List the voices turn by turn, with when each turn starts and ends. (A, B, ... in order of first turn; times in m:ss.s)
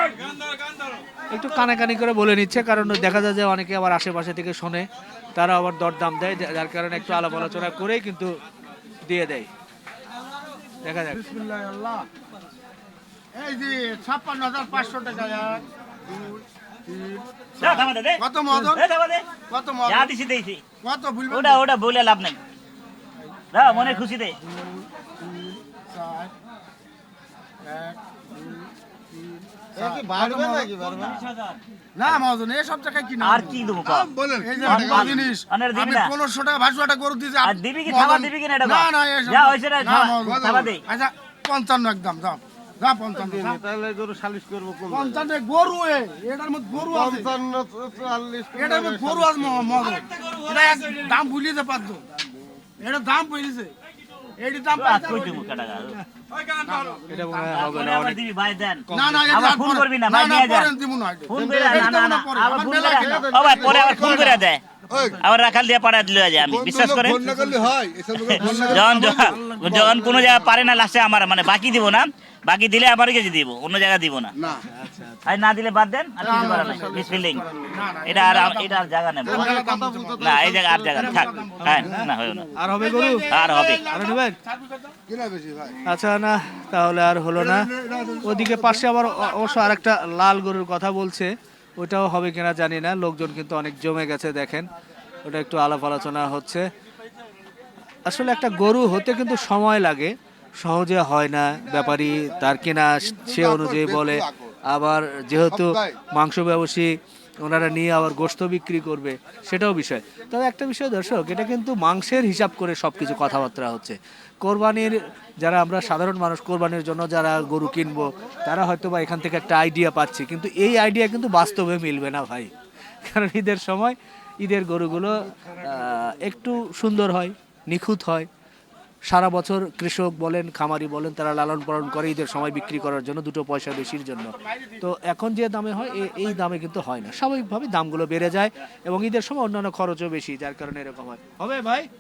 0:01.3-0:08.3 A
0:09.0-0:09.5 A
0:10.8-0:11.3 A
0:11.1-0:12.1 B
0:13.3-0:18.9 B
0:17.6-0:19.2 C
0:19.5-0:20.1 B
0:19.8-0:20.6 C
0:20.8-0:21.6 B
0:21.3-0:22.4 C
0:23.5-0:24.4 C
0:23.6-0:24.0 B
0:25.2-0:26.3 B
0:27.6-0:28.6 B
0:29.8-0:30.7 B
0:29.8-0:31.3 D
0:31.0-0:31.5 C
0:31.9-0:33.8 B
0:33.2-0:34.1 C
0:33.8-0:35.2 E
0:34.4-0:43.6 B
0:34.6-0:36.1 C
0:37.4-0:40.8 C
0:43.1-0:45.3 D
0:44.9-0:47.3 B
0:46.7-0:49.8 D
0:48.6-0:52.0 B
0:52.8-0:53.7 B
0:54.4-0:55.5 B
0:54.7-0:56.0 C
0:56.6-0:57.7 B
0:57.1-0:58.2 A
0:57.5-1:00.7 C
0:58.9-0:59.2 A
0:58.9-1:04.4 B
1:01.3-1:04.6 C
1:01.3-1:02.0 D
1:02.7-1:04.4 D
1:03.6-1:04.3 E
1:04.9-1:05.2 E
1:05.2-1:07.2 C
1:06.4-1:10.2 E
1:08.2-1:14.3 C
1:08.4-1:10.2 B
1:14.7-1:15.2 A
1:15.2-1:17.4 C
1:16.2-1:17.8 D
1:16.2-1:17.1 B
1:17.7-1:22.0 B
1:18.0-1:19.5 C
1:19.2-1:21.3 D
1:20.2-1:22.5 C
1:22.6-1:23.3 A
1:22.6-1:25.0 B
1:23.3-1:23.8 C
1:23.9-1:24.3 A
1:25.1-1:25.8 E
1:25.8-1:27.7 A
1:27.3-1:28.8 E
1:28.2-1:34.7 A
1:35.2-1:36.6 A
1:38.1-1:46.9 A
1:43.0-1:44.5 E
1:45.5-1:46.0 E
1:47.4-2:02.5 A
2:03.0-2:08.3 A
2:09.1-2:21.9 A
2:14.4-2:14.7 B